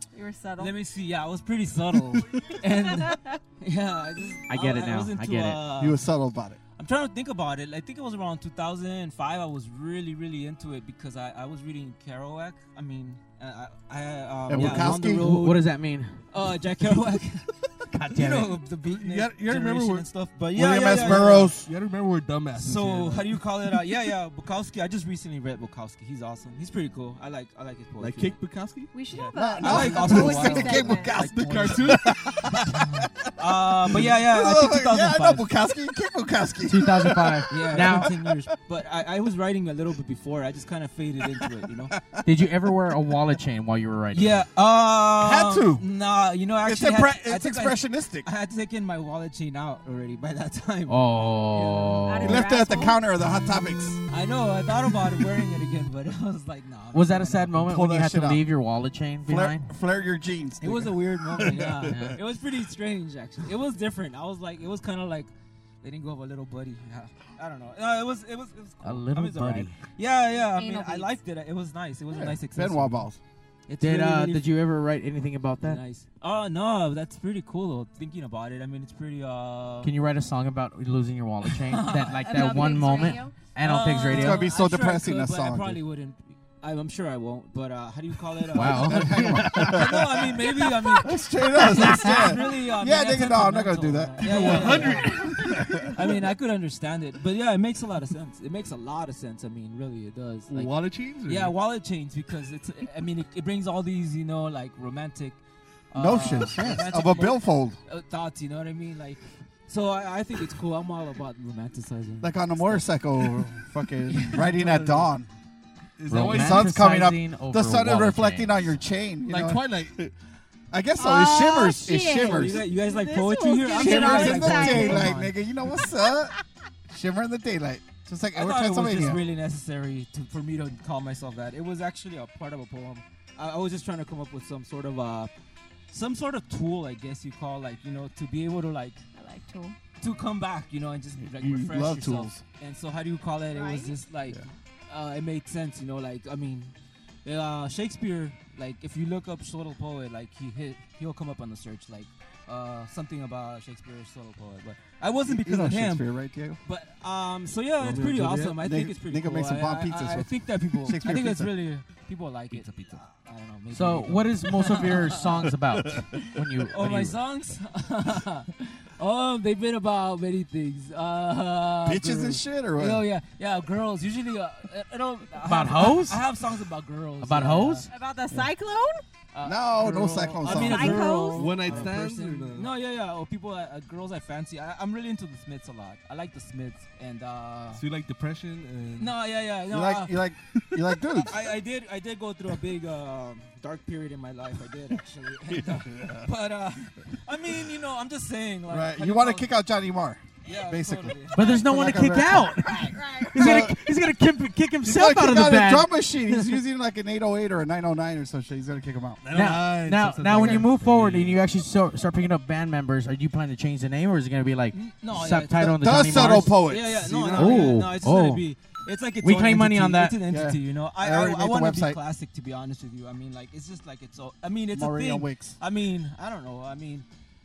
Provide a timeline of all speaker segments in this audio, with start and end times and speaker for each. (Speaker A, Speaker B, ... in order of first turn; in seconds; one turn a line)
Speaker A: 0.1-0.7
Speaker B: 0.6-6.0
Speaker A: 2.9-3.4
Speaker C: 4.5-5.6
Speaker D: 5.8-6.6
Speaker B: 6.8-15.6
Speaker D: 14.5-15.3
Speaker C: 14.5-16.1
Speaker B: 16.3-17.5
Speaker C: 17.9-18.6
Speaker B: 18.1-21.5
Speaker E: 19.0-20.0
Speaker D: 19.2-19.9
Speaker D: 20.5-21.7
Speaker E: 20.7-23.4
Speaker B: 22.6-28.4
Speaker E: 28.0-28.9
Speaker A: 28.9-31.1
Speaker B: 29.1-30.9
Speaker D: 29.3-33.1
Speaker E: 29.6-32.6
Speaker B: 33.4-35.5
Speaker D: 33.7-38.3
Speaker C: 36.6-38.1
Speaker B: 37.5-42.0
Speaker D: 42.0-42.5
Speaker C: 42.2-44.4
Speaker B: 44.1-51.0
Speaker D: 45.2-45.8
Speaker D: 46.6-48.3
Speaker C: 50.9-52.4
Speaker B: 51.5-52.0
Speaker A: 52.0-53.0
Speaker D: 52.2-54.0
Speaker B: 54.1-57.6
Speaker C: 56.9-59.7
Speaker D: 57.6-58.4
Speaker D: 59.2-62.2
Speaker B: 60.6-65.3
Speaker C: 61.9-62.2
Speaker B: 65.8-73.0
Speaker C: 68.8-69.8
Speaker A: 70.5-71.1
Speaker D: 72.1-73.2
Speaker B: 73.7-74.5
Speaker C: 73.8-75.8
Speaker B: 75.6-79.9
Speaker C: 79.8-84.4
Speaker B: 81.5-82.7
Speaker A: 82.1-83.3
Speaker B: 83.6-95.3
Speaker D: 84.1-85.8
Speaker C: 88.5-89.9
Speaker D: 88.6-96.1
Speaker C: 91.8-92.2
Speaker E: 94.2-95.4
Speaker A: 95.0-95.5
Speaker B: 95.9-100.7
Speaker E: 100.5-101.5
Speaker B: 101.2-105.4
Speaker B: 105.9-112.9
Speaker D: 105.9-107.8
Speaker D: 112.2-115.3
Speaker E: 114.3-115.1
Speaker E: 116.0-116.8
Speaker C: 116.1-118.7
Speaker D: 116.1-119.6
Speaker E: 119.2-120.1
Speaker D: 120.7-122.6
Speaker A: 121.0-125.1
Speaker B: 122.2-125.3
Speaker D: 123.7-126.3
Speaker D: 126.9-129.2
Speaker B: 128.3-135.3
Speaker B: 135.9-139.0
Speaker A: 139.2-139.8
Speaker B: 140.0-146.7
Speaker D: 141.2-142.4
Speaker A: 143.5-143.9
Speaker B: 147.2-156.1
Speaker D: 155.3-156.6
Speaker B: 156.6-165.5
Speaker E: 157.8-158.6
Speaker D: 158.6-161.5
Speaker C: 163.7-167.2
Speaker B: 166.7-177.9
Speaker D: 171.8-173.0
Speaker C: 175.4-176.2
Speaker C: 177.2-177.8
Speaker A: 177.9-179.0
Speaker B: 179.3-187.8
Speaker D: 179.4-181.2
Speaker A: 180.4-181.5
Speaker E: 180.7-182.7
Speaker E: 187.7-189.1
Speaker B: 189.0-190.1
Speaker D: 189.7-191.4
Speaker B: 191.2-199.5
Speaker D: 195.6-196.2
Speaker D: 198.7-203.8
Speaker B: 200.4-201.6
Speaker C: 201.3-205.9
Speaker A: 202.7-203.6
Speaker D: 204.8-209.2
Speaker E: 209.2-211.4
Speaker C: 209.3-216.6
Speaker D: 210.3-210.7
Speaker B: 214.7-227.1
Speaker D: 215.6-217.7
Speaker E: 217.0-217.8
Speaker C: 217.3-218.4
Speaker C: 219.2-220.2
Speaker D: 220.3-222.0
Speaker D: 224.7-225.6